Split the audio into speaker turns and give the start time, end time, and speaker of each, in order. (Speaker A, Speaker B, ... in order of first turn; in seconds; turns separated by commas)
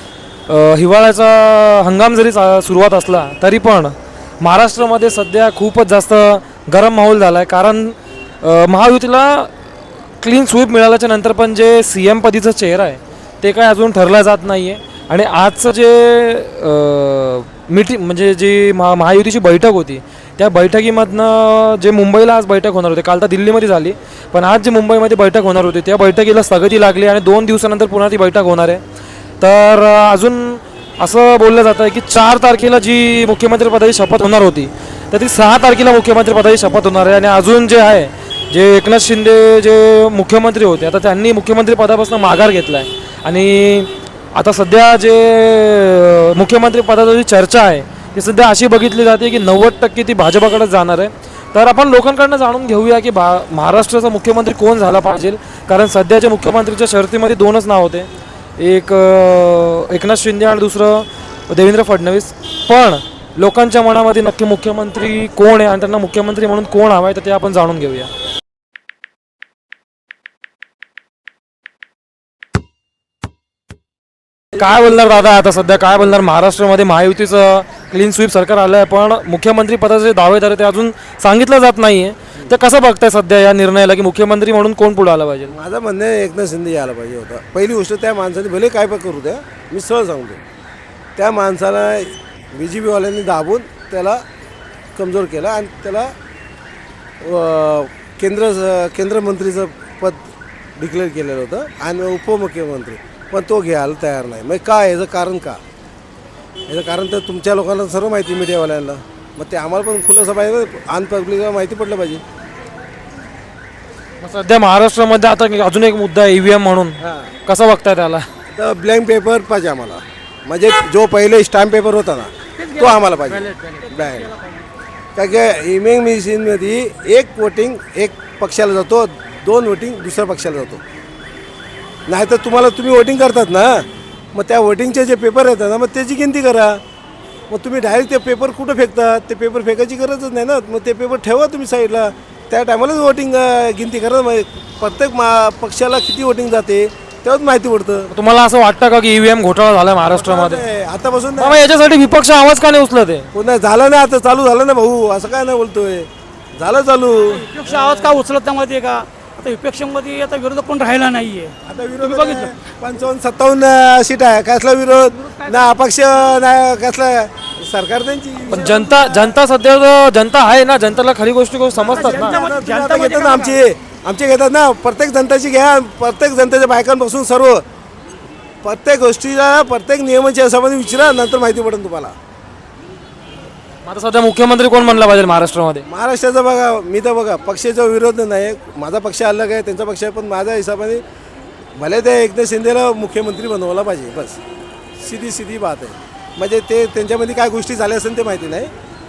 Speaker A: 0.5-9.5, Speaker A: 10.2-28.8, Speaker A: 29.4-68.1, Speaker A: 74.6-85.5, Speaker B: 85.5-90.4, Speaker B: 91.2-94.2, Speaker B: 95.0-96.1, Speaker B: 97.2-100.2, Speaker B: 100.8-105.6, Speaker B: 106.7-112.2, Speaker A: 114.2-118.2, Speaker B: 117.0-117.3, Speaker B: 118.5-124.3, Speaker C: 122.6-124.7, Speaker B: 125.2-130.8, Speaker B: 132.1-136.8, Speaker B: 137.5-148.1, Speaker A: 148.1-150.6, Speaker B: 150.1-151.6, Speaker A: 151.4-153.3, Speaker B: 153.3-157.4, Speaker C: 157.3-162.6, Speaker B: 161.7-169.4, Speaker C: 165.0-165.7, Speaker A: 168.5-172.4, Speaker B: 171.8-177.7, Speaker C: 171.8-173.6, Speaker B: 178.6-182.2, Speaker A: 183.8-185.9, Speaker B: 185.9-191.0, Speaker B: 191.8-194.4, Speaker B: 195.0-198.7